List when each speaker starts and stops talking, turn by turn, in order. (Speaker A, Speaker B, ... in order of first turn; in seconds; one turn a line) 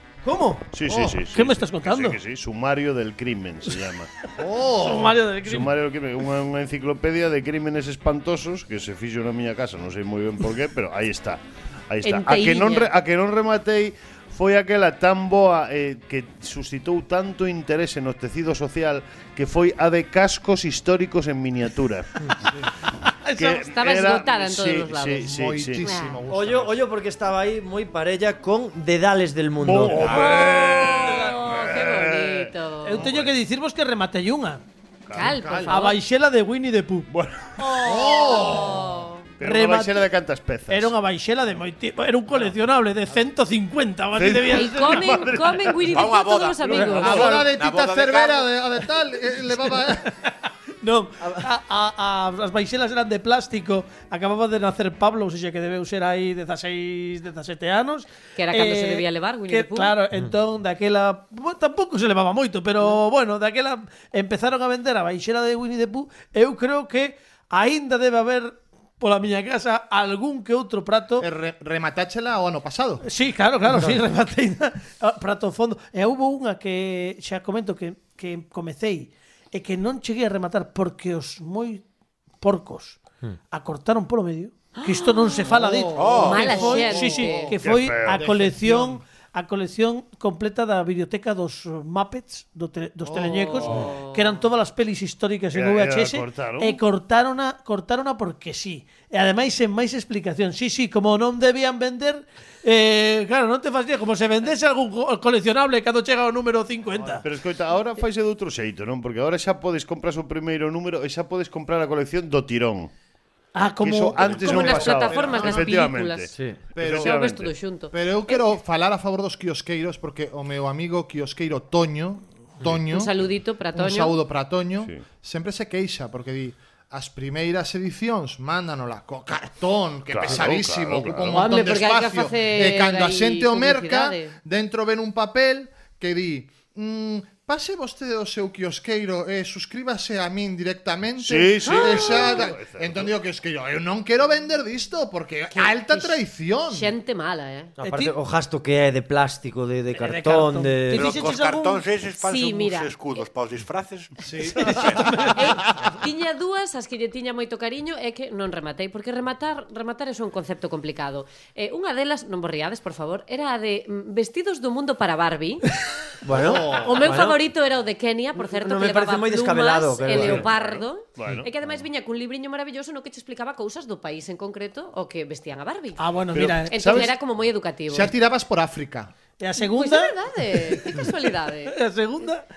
Speaker A: 0.2-0.7
Speaker B: 0.7-4.1
Speaker C: 0.8-1.2
Speaker A: 1.3-2.2
Speaker C: 4.4-5.2
Speaker A: 4.8-5.7
Speaker B: 5.4-22.7
Speaker D: 12.0-12.9
Speaker B: 23.4-25.9
Speaker D: 23.4-26.2
Speaker C: 25.2-26.8
Speaker E: 26.3-30.0
Speaker B: 29.6-33.3
Speaker F: 29.9-30.6
Speaker D: 30.0-33.0
Speaker A: 30.1-31.3
Speaker A: 32.8-34.6
Speaker B: 35.1-35.7
Speaker C: 35.1-35.7
Speaker D: 35.1-36.0
Speaker A: 35.7-37.1
Speaker B: 37.1-38.8
Speaker D: 37.6-39.2
Speaker C: 37.8-39.0
Speaker B: 39.4-41.0
Speaker A: 39.4-40.1
Speaker A: 40.7-45.1
Speaker B: 44.2-46.1
Speaker D: 44.5-47.4
Speaker F: 45.8-48.5
Speaker B: 46.7-47.5
Speaker C: 46.9-50.1
Speaker A: 50.8-71.3
Speaker D: 58.4-60.0
Speaker C: 71.2-73.0
Speaker A: 73.0-81.8
Speaker E: 73.7-74.0
Speaker A: 82.4-83.0
Speaker A: 83.5-107.2
Speaker D: 84.8-85.5
Speaker C: 85.5-89.0
Speaker F: 86.0-86.6
Speaker D: 86.1-87.5
Speaker B: 87.5-88.3
Speaker C: 93.0-93.9
Speaker D: 93.6-94.4
Speaker B: 95.5-96.8
Speaker B: 107.0-112.9
Speaker A: 113.5-115.0
Speaker B: 113.8-117.5
Speaker D: 114.3-118.5
Speaker C: 114.4-115.9
Speaker E: 116.3-116.7
Speaker C: 116.7-117.4
Speaker C: 117.9-146.9
Speaker D: 122.9-124.2
Speaker B: 130.1-131.5
Speaker D: 131.3-134.3
Speaker B: 141.2-143.1
Speaker D: 141.6-142.5
Speaker D: 145.5-147.7
Speaker E: 147.8-151.3
Speaker A: 147.8-148.1
Speaker A: 149.9-151.8
Speaker F: 150.9-154.2
Speaker D: 152.2-153.2
Speaker C: 154.2-155.3
Speaker A: 154.4-156.0
Speaker D: 155.3-165.7
Speaker E: 166.2-167.4
Speaker C: 166.3-167.0
Speaker D: 166.3-176.0
Speaker E: 168.4-170.5
Speaker B: 170.1-171.8
Speaker A: 176.0-177.1
Speaker B: 176.3-177.2
Speaker D: 176.7-178.1
Speaker C: 177.9-179.1
Speaker A: 179.4-181.1
Speaker D: 179.6-181.8
Speaker A: 181.7-182.5